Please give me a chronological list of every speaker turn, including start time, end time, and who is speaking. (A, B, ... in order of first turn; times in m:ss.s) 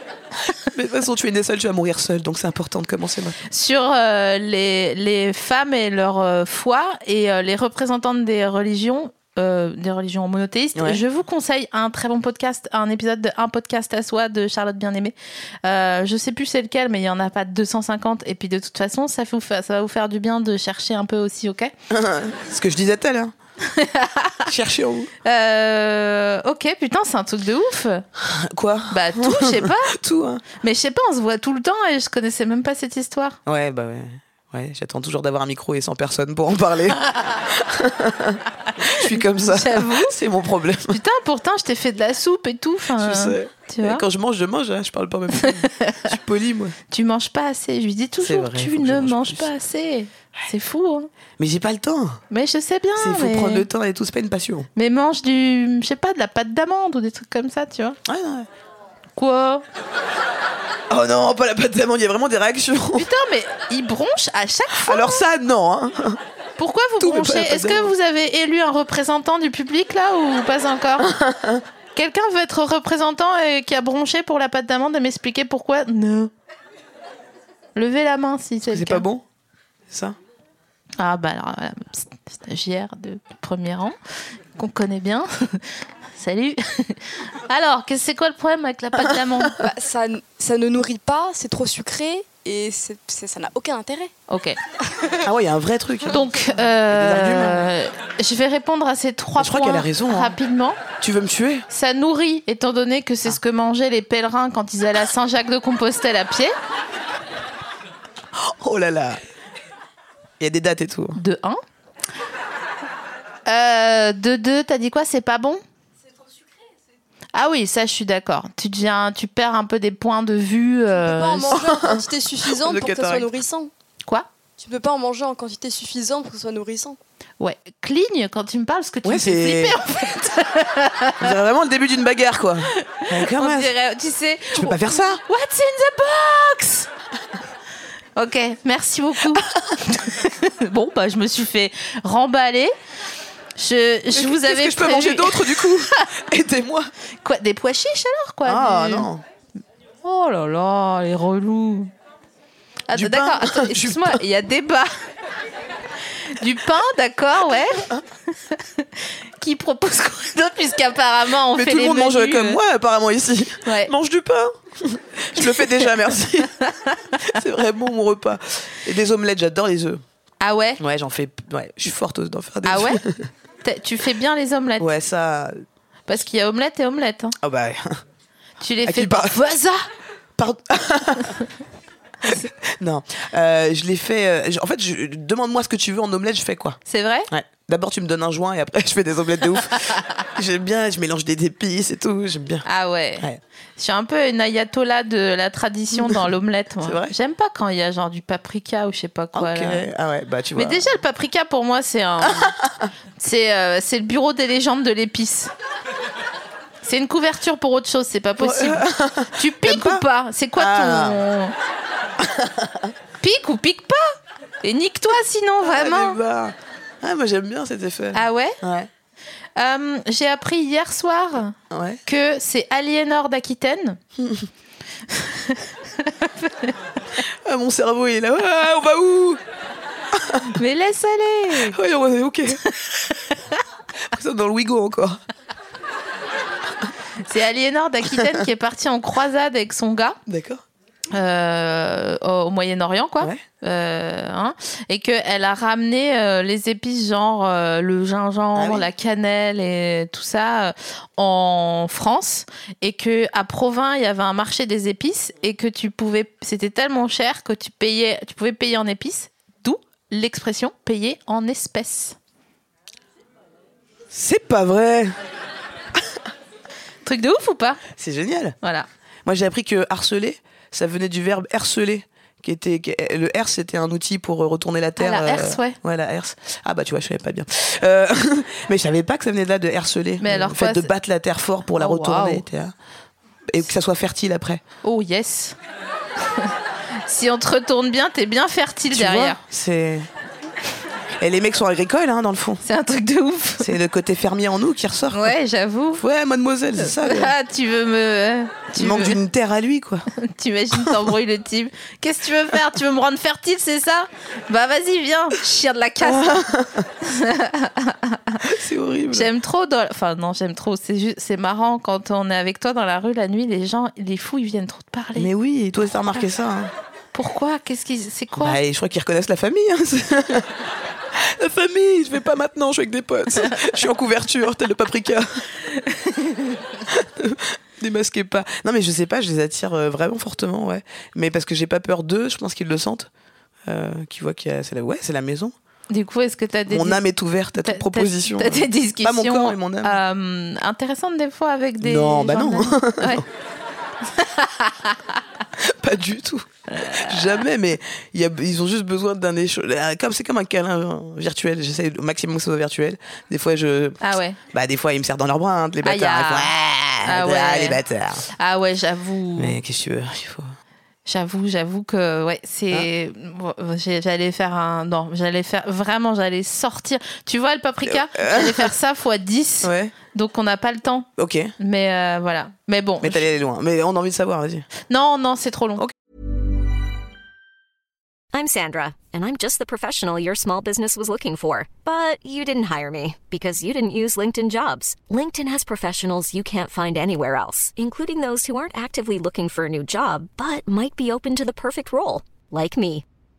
0:00.6-0:03.4 A
0:03.5-0:21.7 B
0:10.8-0:11.0 A
0:21.9-0:23.3 A
0:23.6-0:24.5 B
0:24.5-0:25.1 A
0:25.2-0:28.1 B
0:28.2-0:30.4 A
0:28.9-0:29.9 B
0:30.6-0:33.4 B
0:33.5-0:41.0 A
0:38.8-0:40.2 B
0:40.9-0:44.0 B
0:43.0-0:46.8 A
0:45.4-0:46.1 B
0:46.9-0:51.1 B
0:48.2-0:49.5 A
0:51.4-0:52.2 A
0:52.3-0:53.7 B
0:53.0-0:54.7 A
0:54.8-0:58.0 B
0:58.0-0:58.5 A
0:59.2-0:59.6 B
1:00.9-1:03.1 A
1:03.0-1:05.2 B
1:04.7-1:06.2 A
1:06.6-1:11.1 B
1:07.0-1:07.9 A
1:11.0-1:11.6 A
1:12.0-1:16.3 B
1:17.8-1:19.1 B
1:18.7-1:19.2 A
1:19.9-1:20.2 A
1:21.0-1:24.0 B
1:24.6-1:29.6 B
1:29.6-1:34.1 C
1:34.3-1:34.6 B
1:35.2-1:36.2 A
1:36.1-1:40.8 B
1:36.9-1:37.6 A
1:39.4-1:40.4 A
1:41.0-1:41.7 A
1:41.7-1:46.5 B
1:48.4-1:49.2 A
1:50.4-1:51.2 A
1:51.2-1:51.6 B
1:53.5-1:55.6 B
1:57.3-2:01.6 B
2:01.0-2:03.7 C
2:01.5-2:03.3 A
2:04.6-2:07.0 C
2:07.4-2:11.3 B
2:09.0-2:09.8 A
2:11.2-2:13.7 A
2:12.8-2:16.9 B
2:14.5-2:15.2 A
2:18.2-2:22.7 B
2:19.4-2:19.7 A
2:23.6-2:26.0 B
2:24.1-2:26.9 A
2:27.2-2:29.1 B
2:28.4-2:29.2 A
2:30.0-2:31.9 B
2:32.9-2:34.9 B
2:32.9-2:34.2 A
2:36.2-2:37.9 B
2:38.5-2:42.6 B
2:41.5-2:46.5 A
2:43.6-2:43.9 B
2:45.4-2:45.7 B
2:46.6-2:47.3 B
2:47.2-2:50.0 A
2:50.4-2:50.8 B
2:50.8-2:53.3 A
2:52.7-2:53.0 B
2:53.6-2:54.9 B
2:54.8-2:55.6 A
2:56.1-2:57.4 B
2:57.4-2:58.0 A
2:58.6-2:59.8 B
2:58.8-2:59.4 A
3:00.4-3:01.4 A
3:02.3-3:06.8 A
3:06.9-3:07.3 B
3:07.3-3:12.7 A
3:12.7-3:19.9 B
3:16.8-3:17.1 A
3:19.3-3:20.9 A
3:20.6-3:22.6 B
3:22.2-3:22.8 A
3:23.2-3:25.5 B
3:26.8-3:31.5 B
3:28.4-3:30.0 A
3:30.6-3:31.2 A
3:32.2-3:32.9 A
3:33.2-3:36.2 B
3:35.6-3:38.9 A
3:38.1-3:38.6 B
3:39.6-3:44.0 B
3:41.7-3:42.0 A
3:44.2-3:44.5 A
3:45.1-3:46.8 B
3:47.2-3:49.4 A
3:50.1-3:50.6 A
3:50.5-3:51.8 B
3:51.5-3:52.6 A
3:54.1-3:55.2 A
3:57.2-4:00.2 B
4:00.3-4:00.6 A
4:01.1-4:22.2 B
4:08.6-4:08.9 A
4:24.1-4:25.2 A
4:27.0-4:27.8 B
4:28.0-4:28.6 A
4:28.6-4:28.9 B
4:29.3-4:42.7 A
4:35.0-4:35.8 B
4:40.2-4:40.9 B
4:41.8-4:42.5 B
4:43.5-4:44.6 A
4:44.8-4:45.6 B
4:47.0-4:49.4 B
4:48.9-4:50.1 A
4:51.2-4:52.6 A
4:52.6-4:53.7 B
4:53.6-4:55.4 A
4:55.1-4:56.0 B
4:56.0-4:57.3 A
4:56.8-4:59.2 B
4:58.8-5:00.1 A
5:00.2-5:06.4 B
5:06.0-5:06.9 A
5:07.0-5:08.5 B
5:08.4-5:09.3 A
5:09.1-5:15.3 B
5:15.2-5:16.7 A
5:17.1-5:18.6 B
5:18.4-5:20.6 A
5:21.1-5:25.5 A
5:25.9-5:26.5 B
5:26.9-5:33.1 A
5:33.7-5:35.5 A
5:35.9-5:37.0 B
5:36.7-5:40.0 A
5:37.6-5:43.2 B
5:41.8-5:43.2 A
5:44.0-5:45.2 B
5:45.6-5:58.3 A
5:46.7-5:47.3 B
5:54.0-5:54.4 B
5:55.8-5:57.8 B
5:58.3-5:59.6 B
5:59.4-6:00.6 A
6:01.1-6:13.3 B
6:07.8-6:08.7 A
6:09.6-6:09.9 A
6:11.2-6:11.5 A
6:13.0-6:14.7 A
6:14.9-6:15.8 B
6:18.3-6:33.0 D